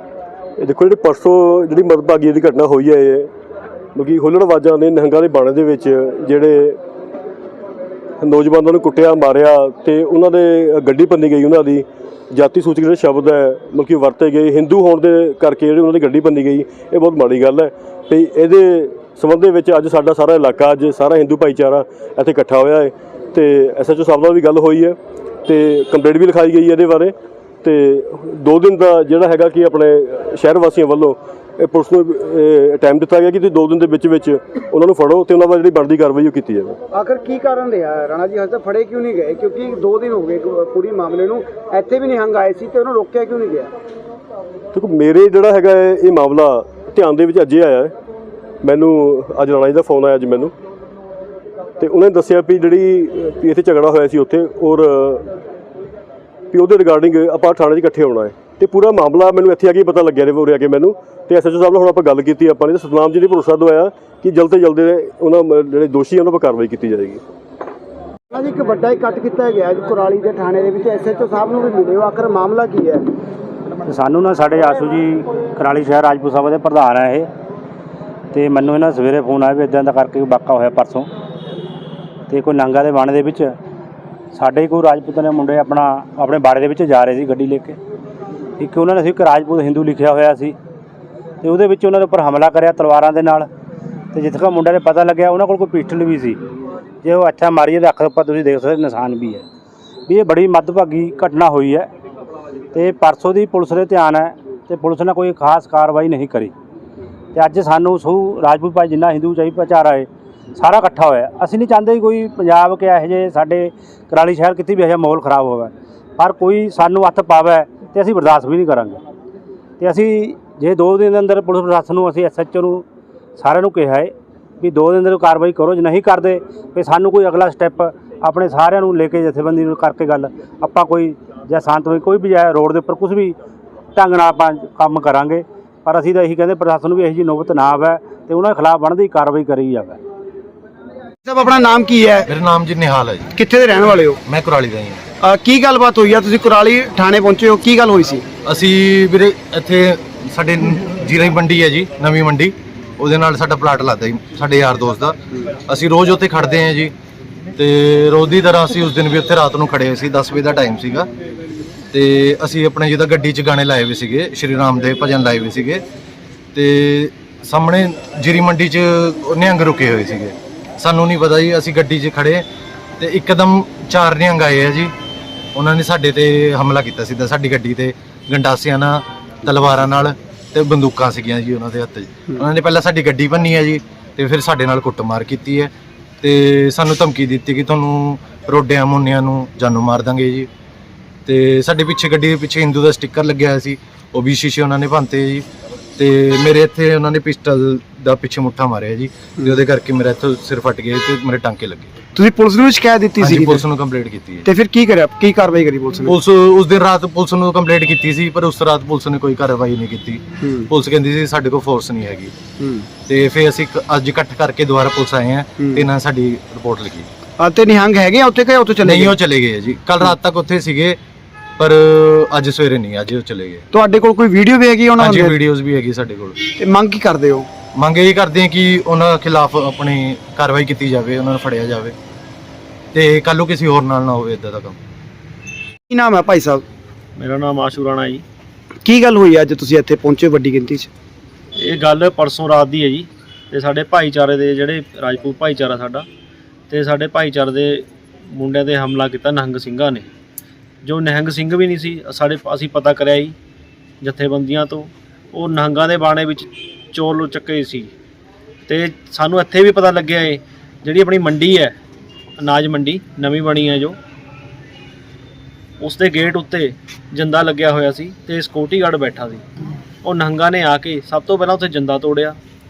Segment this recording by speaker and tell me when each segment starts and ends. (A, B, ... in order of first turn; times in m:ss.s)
0:00.6-0:03.3 A
0:04.0-0:06.8 A
0:08.2-0:36.8 A
0:36.9-0:43.7 B
0:44.7-0:47.9 A
0:48.6-0:50.5 A
0:51.8-0:55.3 A
0:56.5-1:07.2 A
1:08.3-1:13.1 B
1:13.8-1:17.3 C
1:18.3-1:21.1 C
1:22.3-1:23.6 C
1:24.3-1:27.8 C
1:28.6-1:30.6 C
1:31.4-1:33.5 C
1:34.1-1:36.4 C
1:37.0-1:39.4 C
1:40.1-1:41.9 C
1:42.7-1:46.5 C
1:47.3-1:59.0 C
1:59.8-2:02.8 C
2:03.4-2:13.4 C
2:14.0-2:20.0 C
2:21.2-2:22.3 B
2:22.3-2:23.4 D
2:23.4-2:24.2 B
2:24.3-2:25.0 D
2:25.2-2:28.2 B
2:28.4-2:36.9 D
2:37.6-2:41.1 D
2:41.9-2:45.8 D
2:46.5-2:52.5 D
2:53.0-2:54.9 D
2:55.6-3:05.7 D
3:06.2-3:10.5 D
3:11.3-3:15.5 D
3:16.0-3:21.9 D
3:22.2-3:23.6 B
3:23.2-3:24.5 D
3:24.4-3:26.2 B
3:26.1-3:32.4 D
3:33.1-3:37.1 D
3:37.4-3:39.2 B
3:38.8-3:41.0 D
3:41.6-3:43.6 D
3:43.7-3:45.4 B
3:45.0-3:46.4 D
3:46.5-3:47.5 B
3:47.8-3:52.0 D
3:52.9-3:54.8 D
3:55.9-3:56.6 B
3:57.2-3:58.2 E
3:58.8-4:00.9 B
4:01.6-4:06.1 E
4:06.7-4:10.1 E
4:10.8-4:13.4 E
4:14.0-4:17.9 E
4:18.7-4:21.8 E
4:22.4-4:24.0 E
4:25.8-4:29.4 E
4:30.0-4:32.4 E